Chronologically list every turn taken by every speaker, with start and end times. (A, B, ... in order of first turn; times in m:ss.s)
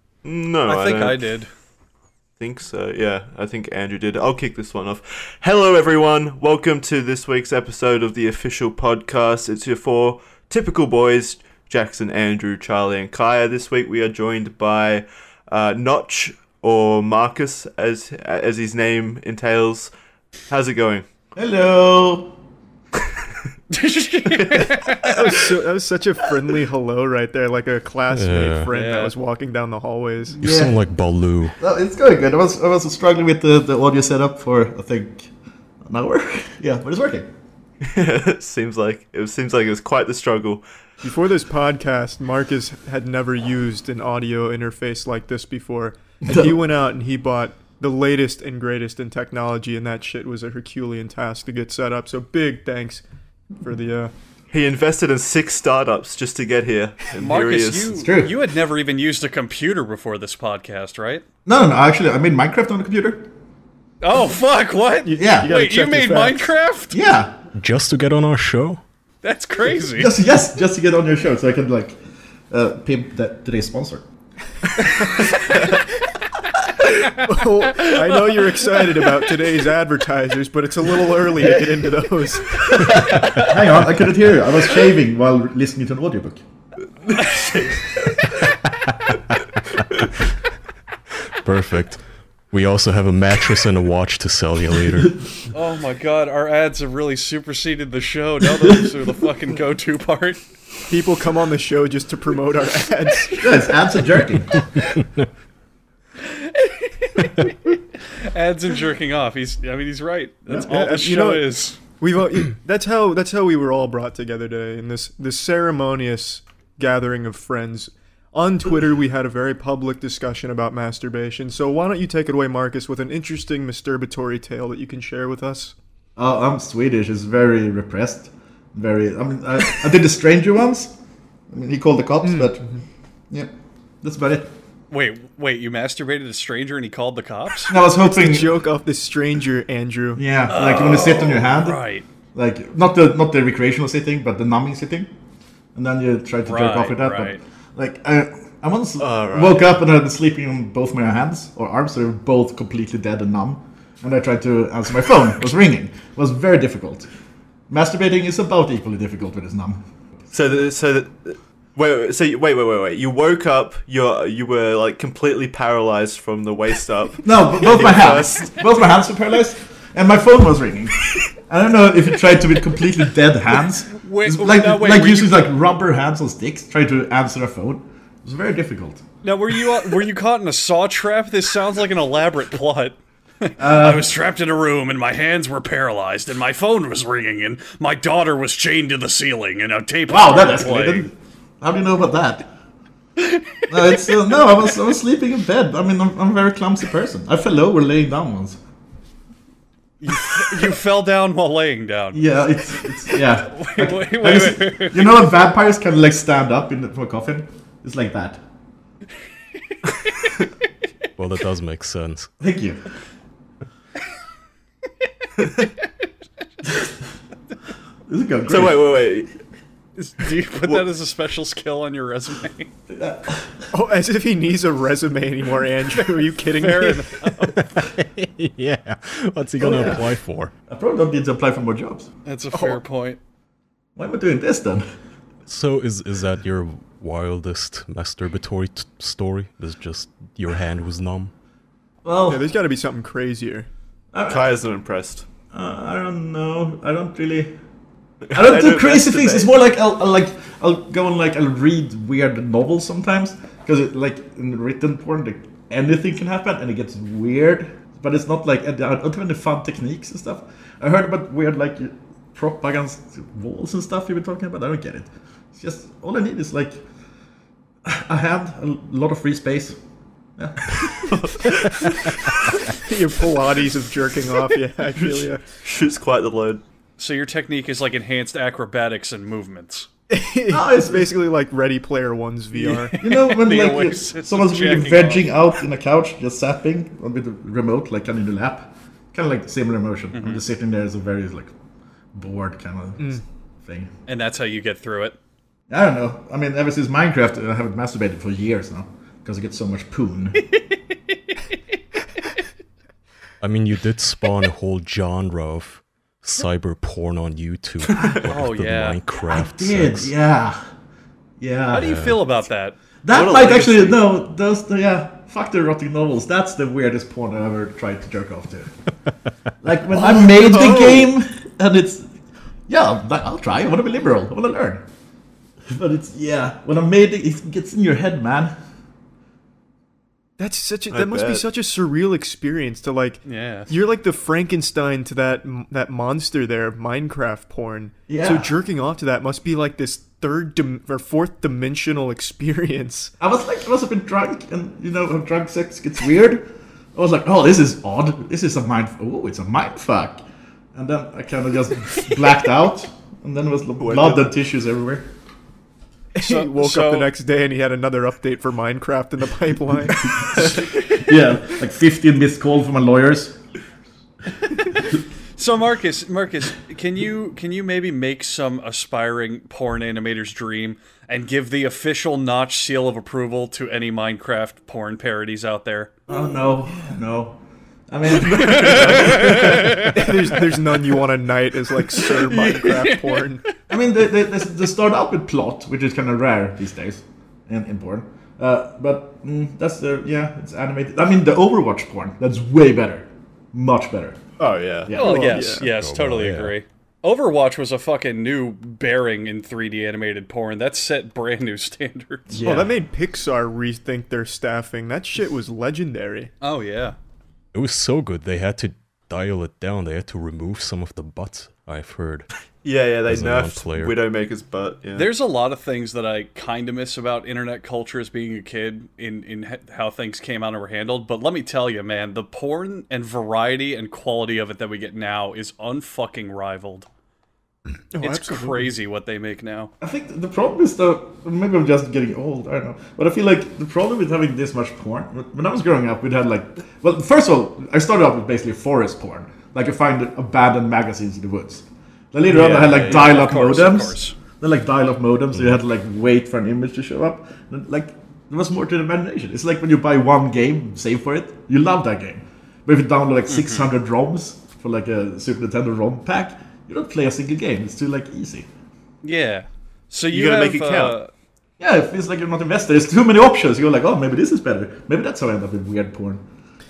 0:00.2-0:01.4 A
0:00.7-0:01.5 B
0:02.4-0:19.9 A
0:20.5-0:21.1 A
0:21.3-0:22.4 C
0:23.7-0:25.1 B
0:24.3-0:25.0 A
0:25.0-0:30.4 D
0:28.1-0:28.7 E
0:28.7-0:29.1 B
0:30.4-0:31.6 E
0:30.4-0:30.7 C
0:31.6-0:35.3 C
0:35.8-0:37.3 C
0:37.8-0:40.6 A
0:41.0-0:54.1 D
0:46.3-0:46.6 C
0:54.5-0:58.0 A
0:57.2-1:01.2 B
0:58.0-0:58.3 C
1:01.4-1:03.3 C
1:04.0-1:07.0 B
1:05.0-1:06.5 D
1:05.2-1:05.5 C
1:06.9-1:07.4 C
1:07.5-1:08.8 E
1:09.2-1:10.1 B
1:09.9-1:14.0 C
1:16.9-1:19.0 B
1:17.1-1:23.1 D
1:22.9-1:26.4 C
1:27.1-1:27.8 A
1:27.1-1:27.7 B
1:31.4-1:35.2 E
1:35.5-1:40.5 B
1:40.9-1:43.7 D
1:43.4-1:44.7 C
1:46.4-1:47.5 B
1:48.2-1:51.8 B
1:50.7-2:05.7 D
2:06.2-2:10.9 C
2:11.5-2:12.6 C
2:12.2-2:12.8 D
2:14.0-2:14.5 C
2:14.9-2:17.8 B
2:17.7-2:18.5 C
2:18.1-2:20.2 D
2:20.2-2:21.8 C
2:20.5-2:22.0 B
2:22.3-2:25.1 C
2:25.8-2:37.1 C
2:26.4-2:27.4 B
2:29.0-2:29.7 A
2:37.7-2:39.8 C
2:40.3-2:48.7 A
2:47.2-2:59.0 C
2:53.9-2:55.5 B
2:59.2-3:11.1 B
3:03.6-3:04.1 C
3:10.1-3:12.5 C
3:13.2-3:13.9 B
3:13.7-3:18.6 C
3:20.0-3:25.2 B
3:22.1-3:28.4 C
3:30.0-3:30.3 B
3:31.2-3:32.3 E
3:32.4-3:32.8 C
3:36.6-3:36.9 C
3:38.1-3:38.8 C
3:38.5-3:39.4 A
3:40.0-3:42.7 B
3:42.9-3:43.7 C
3:43.7-3:47.3 D
3:46.6-3:47.6 B
3:47.5-3:50.5 E
3:49.6-3:50.1 C
3:50.7-3:52.1 C
3:52.2-3:53.2 B
3:52.5-3:52.8 D
3:54.0-3:54.8 C
3:55.5-4:01.3 E
4:02.0-4:02.4 C
4:02.3-4:03.7 D
4:04.1-4:04.5 C
4:04.2-4:05.2 A
4:05.5-4:07.5 C
4:08.2-4:09.5 A
4:08.3-4:26.8 C
4:27.8-4:29.8 C
4:30.4-4:31.1 C
4:31.1-4:32.5 A
4:32.8-4:35.6 D
4:35.0-4:36.6 A
4:37.0-4:39.9 B
4:40.1-4:42.9 D
4:40.5-4:41.1 C
4:42.6-4:45.3 B
4:43.0-4:51.5 C
4:50.1-4:50.4 B
4:52.1-4:53.9 C
4:54.1-4:55.2 B
4:55.7-5:00.4 C
5:03.4-5:10.1 E
5:08.2-5:09.0 B
5:09.2-5:10.6 C
5:11.4-5:12.1 C
5:11.7-5:12.8 B
5:11.8-5:12.2 E
5:13.0-5:18.9 C
5:13.1-5:14.0 A
5:19.6-5:22.1 C
5:20.1-5:21.1 A
5:22.7-5:24.8 C
5:25.7-5:28.5 C
5:30.4-5:43.1 D
5:30.9-5:31.4 A
5:33.2-5:33.7 B
5:38.1-5:38.6 C
5:43.2-5:50.2 C
5:50.8-5:55.0 C
5:53.8-5:54.3 A
5:56.2-6:00.7 D
5:56.2-5:57.1 B
6:00.3-6:03.4 C
6:04.7-6:15.9 B
6:16.1-6:20.3 C
6:18.3-6:19.9 B
6:19.8-6:23.4 D
6:21.9-6:23.5 B
6:23.7-6:34.3 C
6:34.4-6:34.9 A
6:34.8-6:35.4 C
6:34.9-6:42.3 B
6:35.0-6:35.6 D
6:35.6-6:36.5 E
6:42.3-6:42.7 C
6:42.4-6:46.3 D
6:46.4-6:47.0 B
6:47.5-6:52.3 E
6:52.6-6:55.1 A
6:53.1-6:54.0 E
6:54.9-7:06.9 B
7:07.9-7:08.7 D
7:08.0-7:09.7 B
7:09.8-7:38.5 C
7:22.2-7:24.1 B
7:22.5-7:23.2 A
7:33.3-7:33.7 B
7:39.0-7:41.1 B
7:40.1-7:41.0 A
7:41.6-7:46.2 C